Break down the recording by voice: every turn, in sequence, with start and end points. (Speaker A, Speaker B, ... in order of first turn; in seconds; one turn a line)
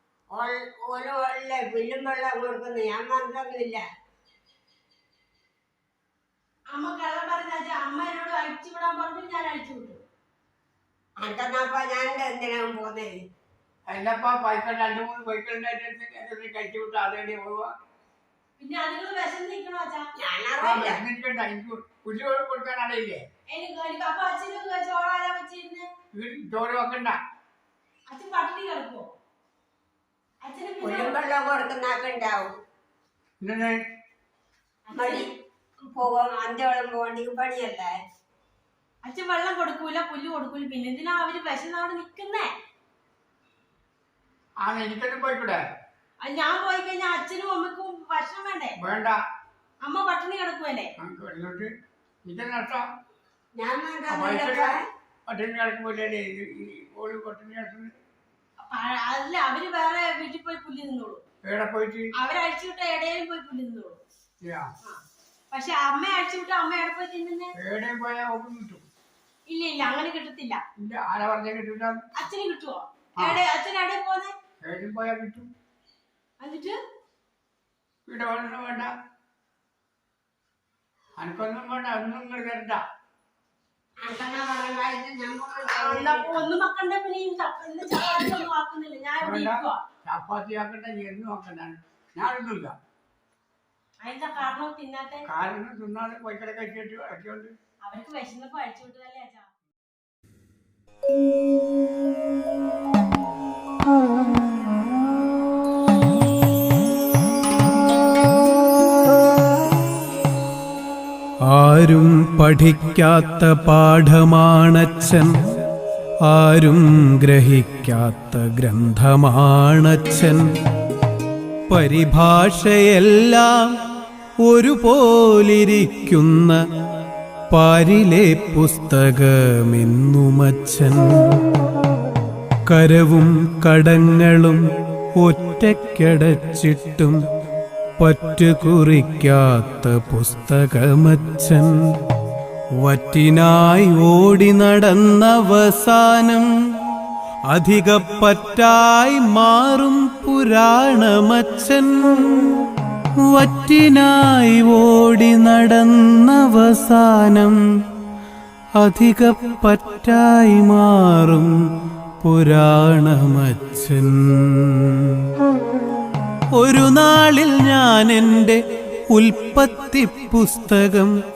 Speaker A: 0.3-3.8
Speaker B: 6.7-10.0
Speaker A: 11.2-13.2
Speaker C: 13.9-17.7
Speaker B: 18.6-20.1
Speaker A: 20.2-21.0
Speaker C: 20.6-23.2
Speaker B: 23.5-25.9
Speaker C: 26.1-27.2
Speaker B: 28.1-29.1
Speaker B: 30.4-31.1
Speaker A: 30.8-32.5
Speaker C: 33.4-33.8
Speaker B: 34.9-35.2
Speaker A: 35.0-35.2
Speaker A: 35.9-37.9
Speaker B: 39.0-42.5
Speaker C: 44.6-45.6
Speaker B: 46.2-48.8
Speaker C: 48.8-49.2
Speaker B: 49.8-50.9
Speaker C: 51.0-51.7
Speaker C: 52.2-52.9
Speaker A: 53.5-54.8
Speaker C: 54.1-54.7
Speaker C: 55.3-57.9
Speaker B: 58.6-61.2
Speaker C: 61.4-62.1
Speaker B: 62.1-64.0
Speaker C: 64.4-64.7
Speaker B: 64.8-67.5
Speaker C: 67.6-68.8
Speaker B: 69.5-70.6
Speaker C: 70.8-72.0
Speaker B: 72.1-74.3
Speaker C: 74.6-75.5
Speaker B: 76.4-76.8
Speaker C: 78.1-78.9
Speaker C: 81.2-82.8
Speaker A: 84.0-86.4
Speaker B: 85.7-89.8
Speaker C: 89.2-92.7
Speaker B: 94.0-95.2
Speaker C: 95.3-97.5
Speaker B: 97.8-99.5
Speaker D: 111.4-115.3
Speaker D: 116.2-120.5
Speaker D: 121.7-123.8
Speaker D: 124.4-126.6
Speaker D: 127.5-131.4
Speaker D: 132.7-134.6
Speaker D: 135.2-137.2
Speaker D: 138.0-141.8
Speaker D: 142.8-146.5
Speaker D: 147.5-152.7
Speaker D: 153.2-157.6
Speaker D: 158.8-161.5
Speaker D: 162.2-165.3
Speaker D: 166.5-171.1